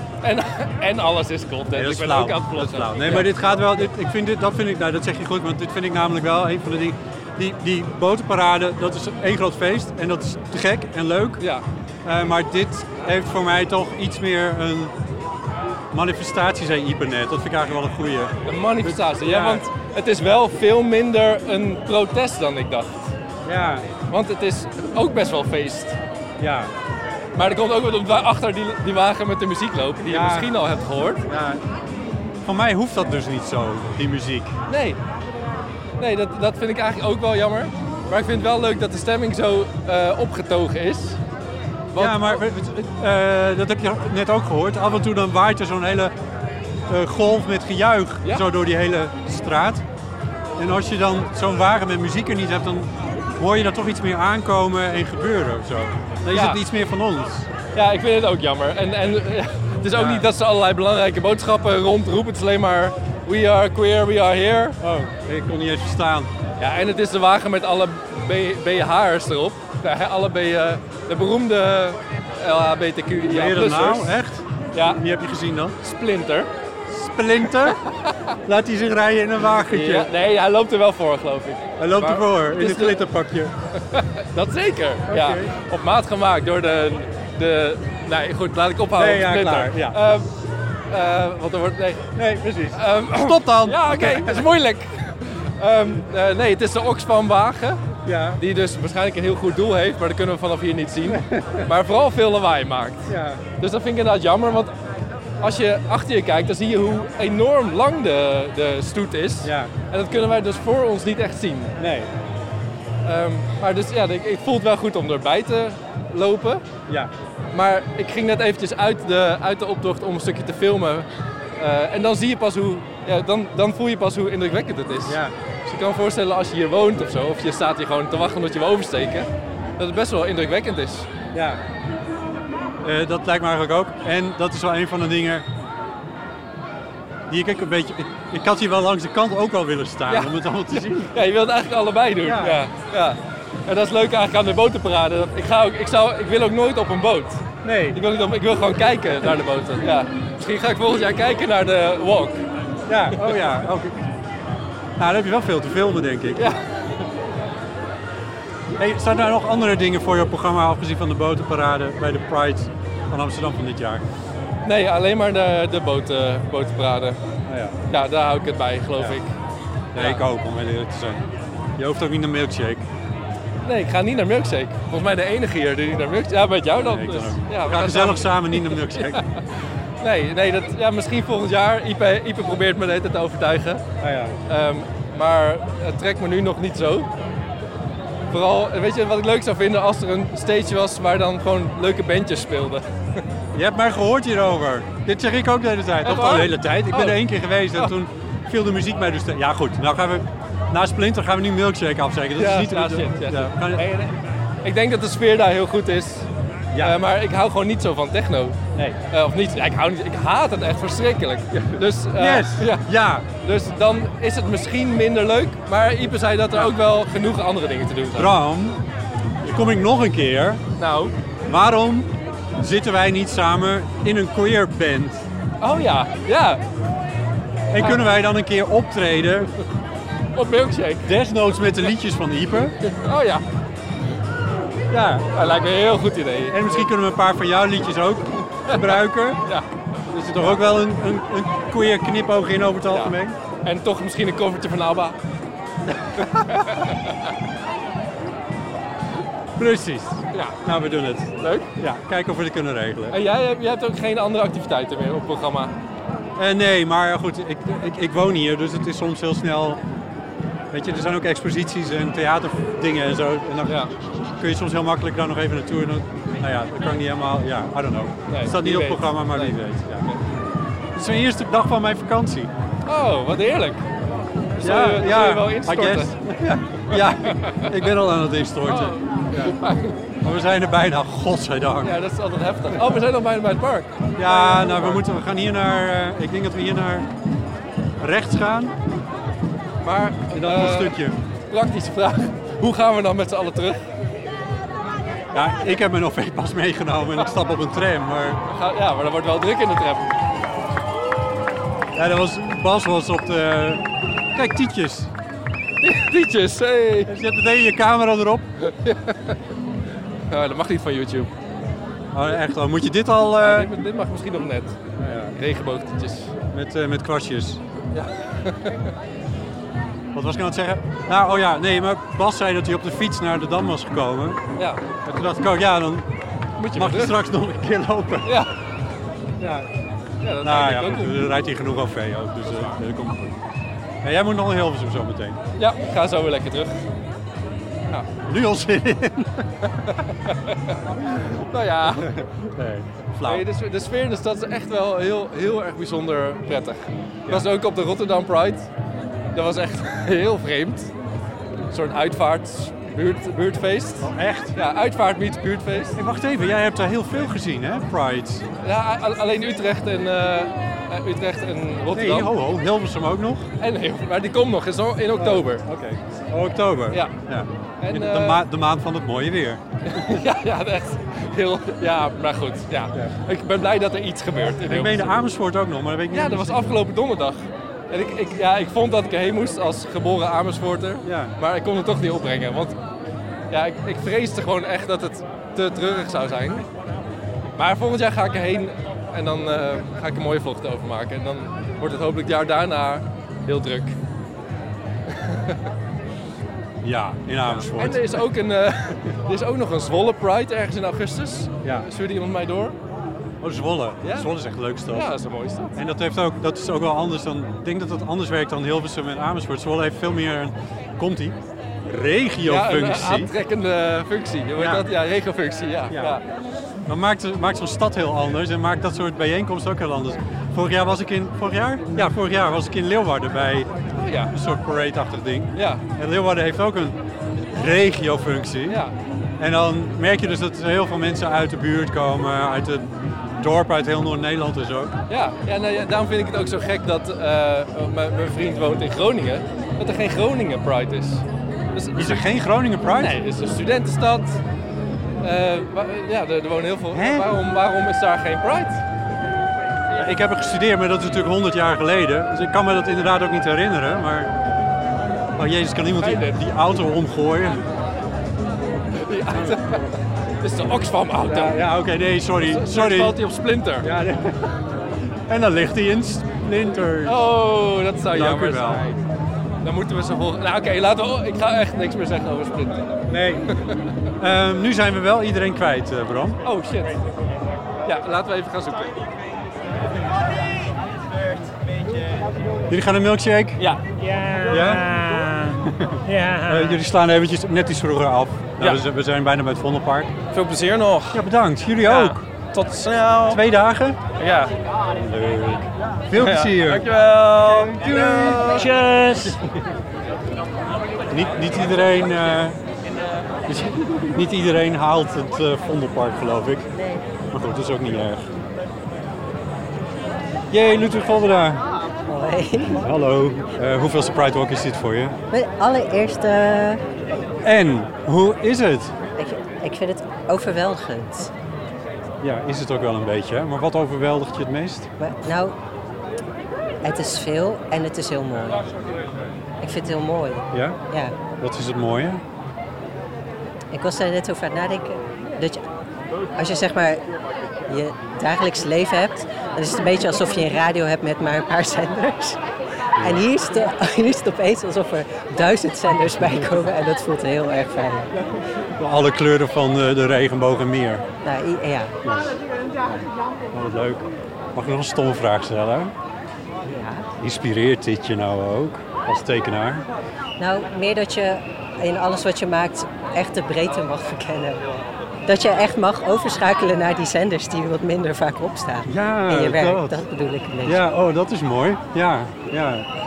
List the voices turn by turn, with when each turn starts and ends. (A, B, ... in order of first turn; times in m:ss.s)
0:00.2-0:03.6 A
0:01.7-0:11.4 B
0:11.4-0:11.6 A
0:12.0-0:14.9 B
0:15.9-0:19.7 B
0:18.4-0:23.1 A
0:23.4-0:23.9 B
0:24.0-0:26.0 A
0:26.4-0:26.7 B
0:27.3-0:31.2 A
0:30.1-0:30.5 B
0:31.3-0:31.6 B
0:32.4-0:34.6 B
0:34.7-0:35.0 A
0:36.0-0:41.2 A
0:41.9-0:42.3 A
0:42.0-0:46.1 B
0:46.9-0:49.8 B
0:50.6-0:57.5 B
0:56.3-0:56.6 A
0:57.7-1:04.8 A
0:59.9-1:00.3 B
1:04.8-1:06.3 B
1:06.6-1:14.1 A
1:13.2-1:15.8 B
1:14.7-1:15.0 A
1:15.8-1:16.5 A
1:16.9-1:17.8 B
1:17.7-1:18.3 A
1:18.4-1:20.1 B
1:19.6-1:23.0 A
1:21.8-1:23.5 B
1:23.8-1:30.3 A
1:25.1-1:25.6 B
1:29.0-1:30.0 B
1:30.9-1:32.1 A
1:32.2-1:34.5 B
1:32.7-1:37.8 A
1:38.0-1:38.4 B
1:38.4-1:44.7 A
1:41.0-1:41.7 B
1:43.1-1:43.4 B
1:45.4-1:51.7 A
1:49.4-1:49.7 B
1:51.8-1:52.1 B
1:53.0-1:56.6 A
1:57.5-2:11.1 A
2:05.1-2:05.3 B
2:11.3-2:11.6 B
2:12.8-2:15.4 B
2:17.3-2:21.1 B
2:20.1-2:32.4 A
2:22.2-2:22.6 B
2:27.6-2:28.0 B
2:32.9-2:34.0 B
2:35.0-2:36.5 B
2:36.4-2:36.6 A
2:38.8-2:44.0 B
2:44.6-2:47.2 A
2:47.5-2:47.8 B
2:47.9-2:49.3 A
2:49.9-2:51.2 B
2:49.9-2:50.2 A
2:51.8-2:52.8 B
2:53.6-2:59.4 A
2:56.8-2:59.2 B
3:00.0-3:03.8 A
3:04.0-3:04.4 B
3:04.5-3:07.1 A
3:08.3-3:13.2 A
3:13.5-3:23.9 B
3:16.0-3:17.2 A
3:22.4-3:28.6 A
3:26.7-3:27.0 B
3:29.1-3:38.3 A
3:31.5-3:33.3 B
3:38.1-3:38.8 B
3:39.4-3:40.6 B
3:40.8-3:41.1 A
3:41.4-3:45.3 B
3:45.6-3:46.6 A
3:47.7-3:49.5 B
3:47.8-3:48.0 A
3:50.3-3:51.1 A
3:51.0-3:52.8 B
3:52.8-3:53.4 A
3:54.9-3:55.3 B
3:55.3-3:56.9 A
3:56.5-3:59.4 B
3:58.6-3:59.6 A
4:00.1-4:03.4 B
4:02.9-4:05.2 A
4:05.9-4:06.7 B
4:06.3-4:07.3 A
4:09.6-4:13.2 B
4:10.3-4:10.6 A
4:11.4-4:11.7 A
4:13.1-4:15.7 A
4:16.4-4:19.8 B
4:20.7-4:23.8 B
4:23.6-4:23.9 A
4:24.4-4:30.2 B
4:28.3-4:30.2 A
4:30.9-4:32.5 B
4:32.9-4:33.8 A
4:34.6-4:36.1 A
4:34.6-4:39.6 B
4:36.9-4:37.8 A
4:38.6-4:40.0 A
4:40.2-4:42.0 B
4:41.8-4:45.0 A
4:44.2-4:47.1 B
4:48.0-4:48.8 B
4:49.8-4:51.0 A
4:50.3-4:51.2 B
4:51.5-4:53.8 A
4:55.3-4:58.4 B
4:58.5-5:00.2 A
5:01.9-5:05.1 B
5:05.8-5:07.1 A
5:07.0-5:08.5 B
5:08.6-5:09.4 A
5:10.3-5:11.3 A
5:12.1-5:13.7 B
5:13.4-5:14.8 A
5:15.0-5:15.4 B
5:15.3-5:16.3 A
5:16.5-5:17.6 B
5:17.9-5:18.9 A
5:20.1-5:24.4 B
5:24.6-5:24.9 A
5:25.0-5:26.1 B
5:26.6-5:27.2 A
5:26.7-5:28.4 B
5:28.2-5:28.5 A
5:29.4-5:29.7 B
5:30.2-5:31.2 A
5:30.4-5:33.4 B
5:34.0-5:35.4 B
5:35.6-5:36.8 A
5:38.2-5:39.5 B
5:39.7-5:42.1 A
5:41.9-5:43.4 B
5:43.2-5:48.7 A
5:49.3-5:50.9 A
5:51.7-5:56.0 A
5:54.0-5:54.6 B
5:56.0-5:58.5 B
5:58.6-6:02.3 A
6:01.9-6:03.4 B
6:03.6-6:05.6 A
6:05.2-6:09.9 B
6:06.9-6:07.2 A
6:07.8-6:08.4 A
6:09.8-6:15.1 A
6:14.7-6:16.8 B
6:16.1-6:22.8 A
6:21.0-6:21.4 B
6:23.5-6:26.6 A
6:27.6-6:33.9 A
6:35.1-6:35.6 A
6:36.8-6:38.2 B
6:37.7-6:42.8 A
6:43.4-6:45.1 B
6:44.0-6:44.3 A
6:44.9-6:45.8 A
6:45.7-6:53.3 B
6:52.4-6:56.2 A
6:54.6-6:54.8 B
6:55.9-6:56.2 B
6:56.8-7:03.7 B
7:04.0-7:04.3 A
7:04.3-7:08.8 B
7:05.5-7:05.8 A
7:08.7-7:08.9 A
7:09.4-7:14.9 B
7:15.1-7:22.2 A
7:21.9-7:23.2 B
7:22.9-7:24.4 A
7:25.2-7:28.8 A
7:26.9-7:27.3 B
7:30.0-7:34.3 B
7:35.4-7:37.6 B
7:36.0-7:36.3 A
7:39.0-7:39.9 A
7:39.3-7:39.9 B
7:40.4-7:41.6 A
7:41.2-7:43.2 B
7:42.4-7:43.9 A
7:43.8-7:44.6 B
7:45.3-7:47.3 B
7:47.0-7:49.0 A
7:48.1-7:48.9 B
7:49.6-7:53.0 A
7:53.1-7:53.6 B
7:53.5-7:53.8 A
7:54.2-7:56.4 B
7:56.4-7:57.0 A
7:57.8-7:59.0 A
8:02.7-8:03.6 B
8:03.6-8:06.8 C
8:04.4-8:04.9 B
8:05.6-8:10.1 B
8:10.3-8:11.2 C
8:11.1-8:12.2 B
8:11.8-8:13.4 C
8:13.3-8:14.0 B
8:14.2-8:14.5 C
8:14.9-8:19.6 B
8:16.1-8:19.4 C
8:21.1-8:22.6 B
8:23.4-8:26.7 B
8:27.3-8:28.3 B
8:30.5-8:31.6 B
8:32.0-8:32.8 D
8:32.7-8:35.2 B
8:35.3-8:36.8 D
8:37.4-8:38.9 B
8:39.2-8:41.3 D
8:42.2-8:44.9 B
8:45.0-8:45.5 D
8:46.8-8:48.6 D
8:49.6-8:51.2 D
8:50.5-8:50.8 B
8:51.4-8:52.2 B
8:53.7-8:55.6 D
8:56.3-8:57.0 D
8:57.7-9:02.4 D
9:03.0-9:03.3 B
9:03.0-9:08.1 D
9:08.7-9:11.0 B
9:11.2-9:12.0 D
9:12.0-9:15.9 B
9:16.6-9:17.1 D
9:17.2-9:19.9 B
9:20.4-9:30.8 D
9:28.8-9:30.0 B
9:30.6-9:32.9 B